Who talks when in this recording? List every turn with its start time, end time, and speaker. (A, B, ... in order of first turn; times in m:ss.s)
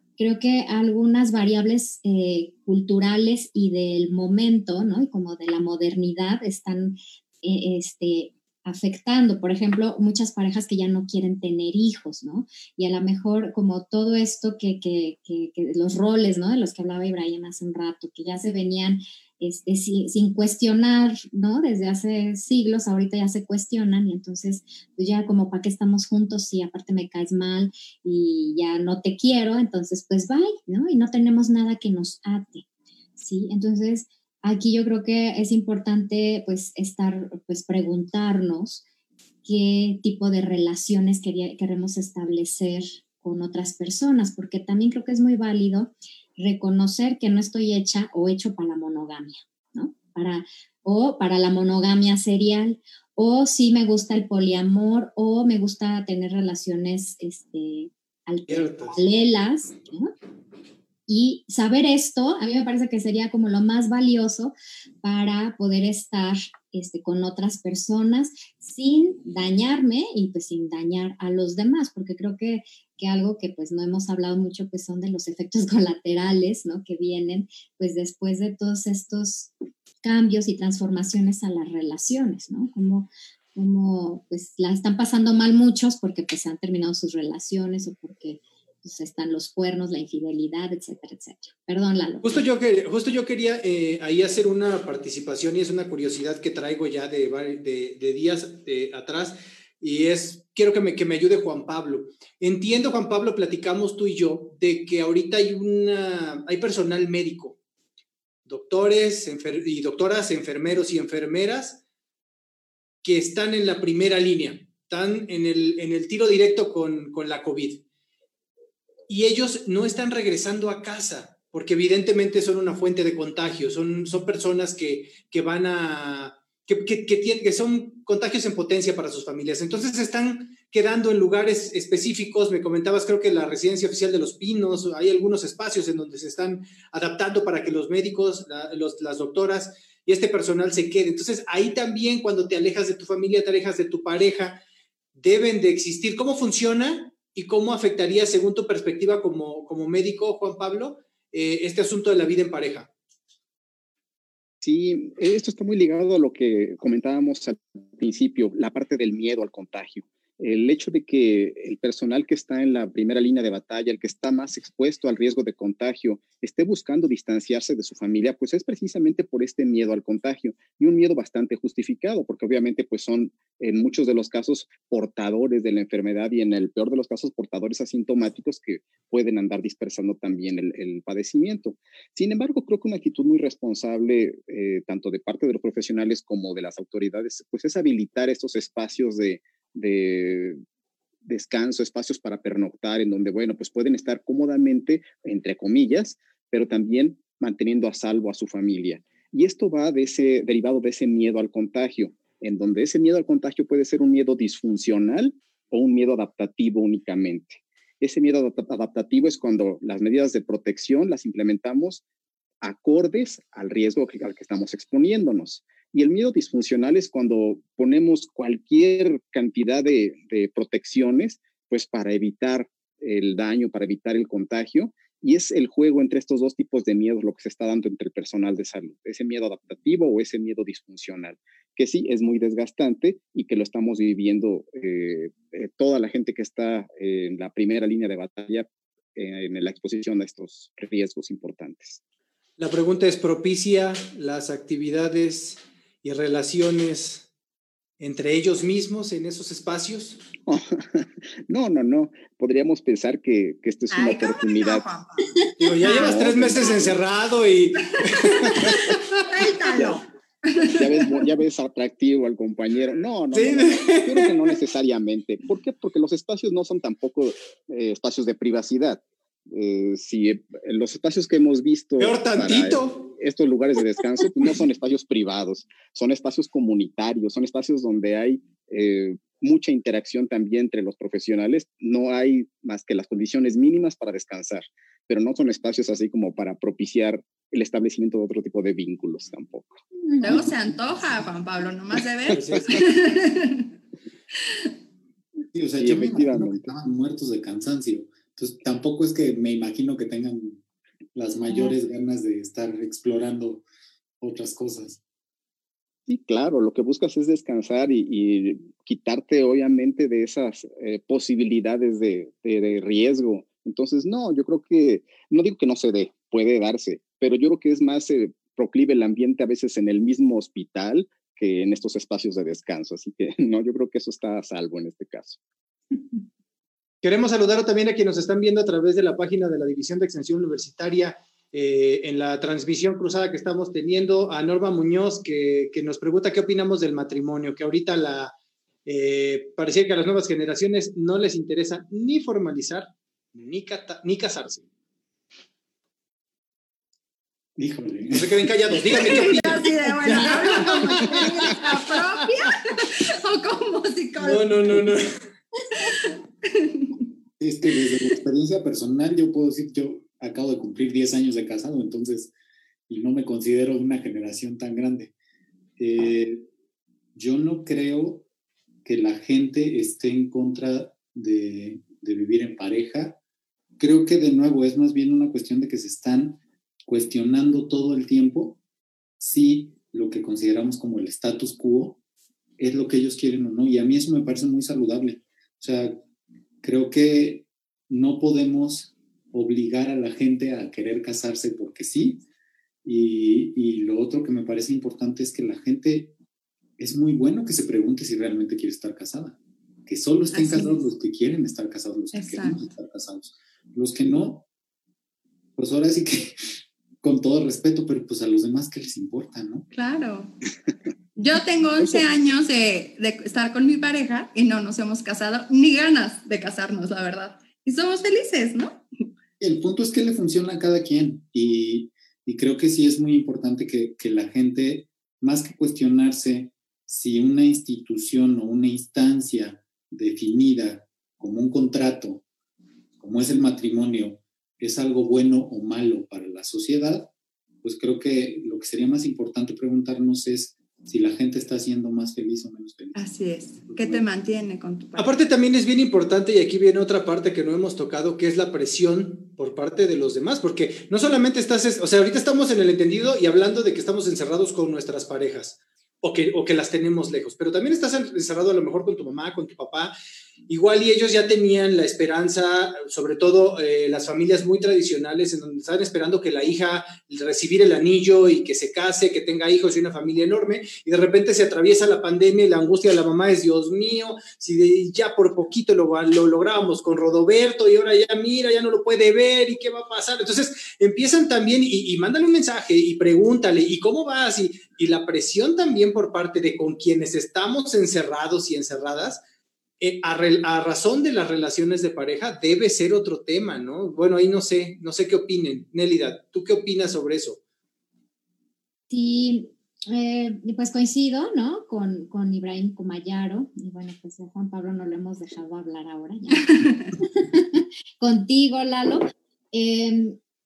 0:00.2-0:32.6 A
0:33.2-0:38.8 A
0:39.4-1:00.1 A
0:58.5-0:59.0 B
1:01.1-1:19.5 A
1:20.0-1:32.4 A
1:32.2-1:47.6 B
1:48.4-1:51.8 B
1:53.0-1:57.8 B
1:59.1-2:24.6 B
2:25.1-2:32.9 B
2:34.6-3:10.6 C
3:11.2-3:32.0 C
3:32.6-4:02.0 C
4:02.6-4:07.3 B
4:08.0-4:10.2 B
4:10.5-4:14.9 C
4:13.9-4:16.7 D
4:15.6-4:19.3 B
4:15.8-4:17.0 C
4:17.8-4:21.2 D
4:18.5-4:18.9 C
4:19.7-4:20.0 C
4:20.7-4:50.5 C
4:23.3-4:24.3 B
4:32.0-4:33.1 B
4:50.2-4:53.7 D
4:52.3-4:52.8 B
4:55.5-5:00.6 E
4:55.8-4:56.6 C
5:01.1-5:03.6 E
5:04.2-5:05.0 E
5:06.1-5:25.4 C
5:27.0-5:38.3 B
5:38.8-5:44.6 B
5:47.6-5:48.5 E
5:48.1-5:52.5 B
5:48.9-5:54.8 D
5:54.2-5:55.2 B
5:55.7-5:57.0 D
5:57.4-6:02.3 E
6:02.9-6:05.1 E
6:05.8-6:06.4 E
6:07.1-6:08.2 E
6:08.8-6:13.2 E
6:13.8-6:18.6 E
6:19.2-6:22.0 E
6:22.6-6:26.0 E
6:26.6-6:32.2 E
6:32.8-6:36.1 E
6:36.8-6:44.4 E
6:40.3-6:40.8 D
6:42.1-6:42.6 D
6:45.6-6:49.7 E
6:49.7-6:50.3 D
6:51.2-6:58.8 D
6:59.4-7:12.2 E
7:13.0-7:17.1 E
7:17.6-7:23.0 E
7:22.9-7:25.2 D
7:23.6-7:24.0 E
7:25.0-7:39.9 B
7:40.5-8:09.2 B
8:09.8-8:17.4 B
8:18.9-8:30.2 A
8:26.5-8:26.8 D